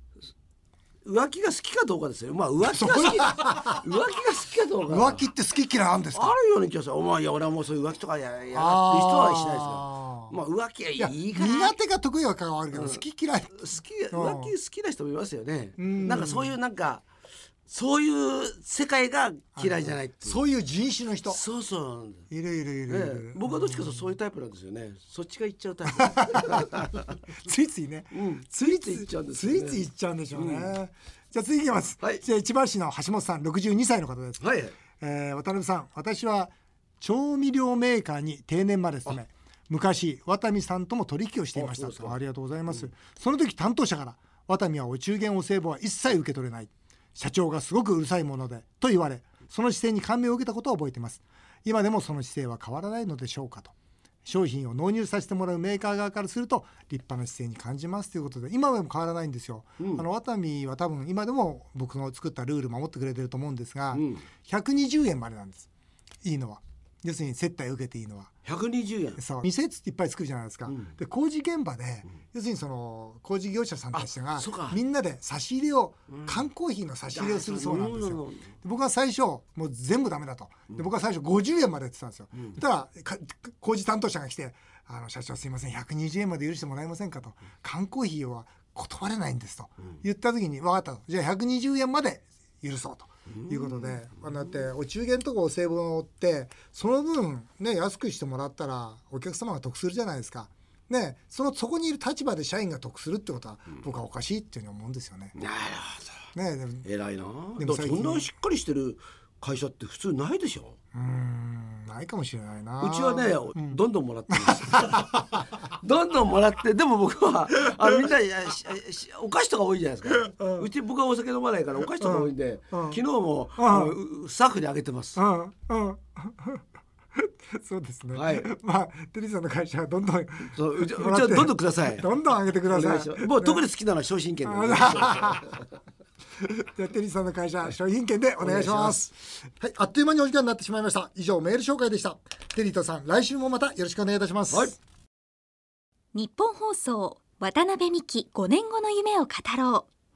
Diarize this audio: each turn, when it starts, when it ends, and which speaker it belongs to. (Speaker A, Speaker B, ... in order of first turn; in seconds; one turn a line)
Speaker A: 1.1-5.3
Speaker B: 2.7-3.8
Speaker B: 4.9-6.3
Speaker A: 6.1-11.8
Speaker B: 8.5-10.4
Speaker B: 11.0-14.5
Speaker A: 12.7-13.0
Speaker A: 13.6-17.1
Speaker B: 15.8-16.5
Speaker A: 17.7-20.4
Speaker B: 19.6-21.4
Speaker A: 21.3-22.3
Speaker B: 22.3-24.1
Speaker A: 22.9-27.1
Speaker B: 26.2-53.7
Speaker A: 28.1-30.7
Speaker A: 34.4-34.8
Speaker A: 41.6-42.2
Speaker B: 54.2-65.7
Speaker A: 59.8-60.0
Speaker A: 63.9-64.2
Speaker B: 66.2-68.3
Speaker A: 68.5-69.2
Speaker B: 69.2-105.4
Speaker A: 73.9-74.8
Speaker A: 76.1-76.4
Speaker A: 77.1-78.5
Speaker A: 93.3-94.0
Speaker A: 105.4-106.2
Speaker B: 106.3-106.9
Speaker A: 106.8-110.8
Speaker B: 107.6-108.3
Speaker B: 110.9-113.8
Speaker A: 112.8-125.2
Speaker B: 114.3-115.4
Speaker B: 120.2-120.7
Speaker B: 122.0-123.0
Speaker B: 123.6-124.0
Speaker B: 125.2-126.6
Speaker B: 127.2-133.6
Speaker A: 128.2-128.5
Speaker A: 130.6-132.1
Speaker A: 132.7-135.6
Speaker B: 134.4-135.6
Speaker B: 136.4-144.8
Speaker A: 138.4-139.1
Speaker C: 146.1-149.9